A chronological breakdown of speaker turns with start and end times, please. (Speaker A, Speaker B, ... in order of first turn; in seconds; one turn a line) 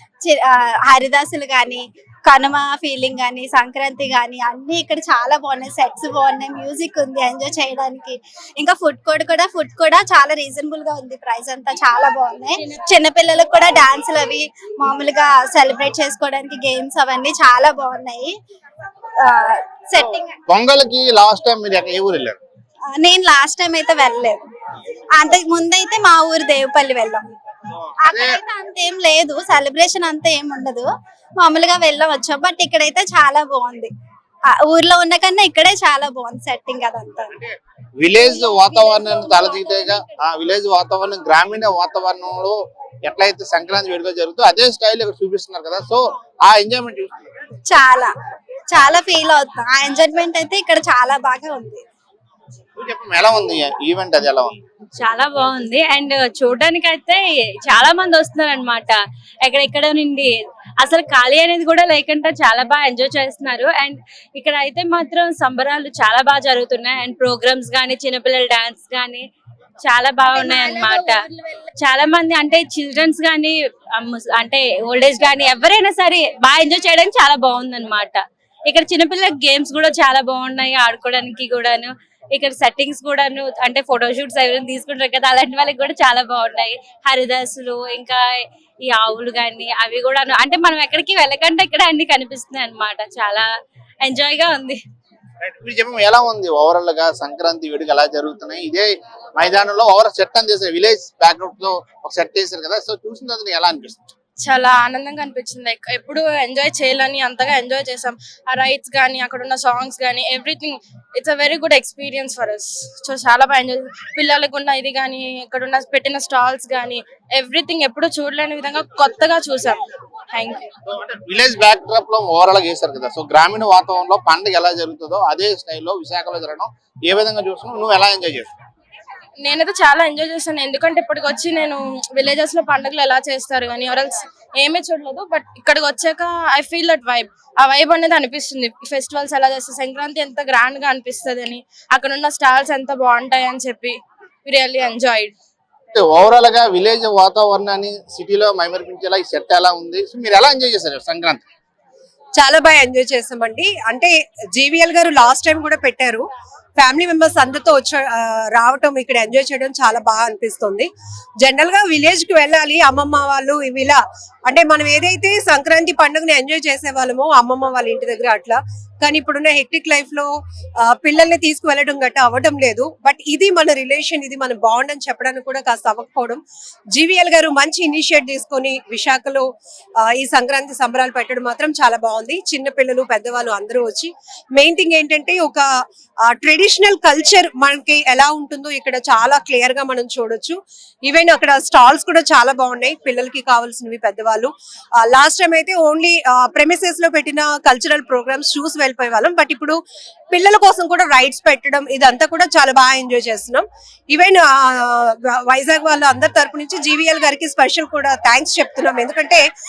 Speaker A: 0.2-18.3
Speaker A: 19.2-20.3
Speaker B: 20.5-22.4
Speaker A: 22.9-24.4
Speaker A: 25.1-27.2
Speaker B: 28.0-28.4
Speaker A: 28.0-33.9
Speaker A: 34.5-37.3
Speaker B: 37.3-47.1
Speaker A: 47.7-48.1
Speaker A: 48.7-51.8
Speaker B: 52.8-54.6
Speaker C: 55.0-69.2
Speaker C: 69.8-71.3
Speaker A: 70.4-71.1
Speaker C: 71.8-88.2
Speaker C: 88.8-93.5
Speaker C: 94.0-94.8
Speaker B: 95.4-104.1
Speaker D: 104.4-119.8
Speaker D: 120.3-120.7
Speaker B: 120.8-128.6
Speaker D: 129.4-143.9
Speaker D: 144.4-145.3
Speaker B: 145.9-151.4
Speaker E: 152.3-156.2
Speaker E: 156.8-160.9
Speaker E: 161.4-170.3
Speaker E: 170.8-176.4
Speaker E: 176.9-179.4
Speaker E: 180.0-185.6
Speaker E: 186.3-199.8
Speaker E: 200.3-209.4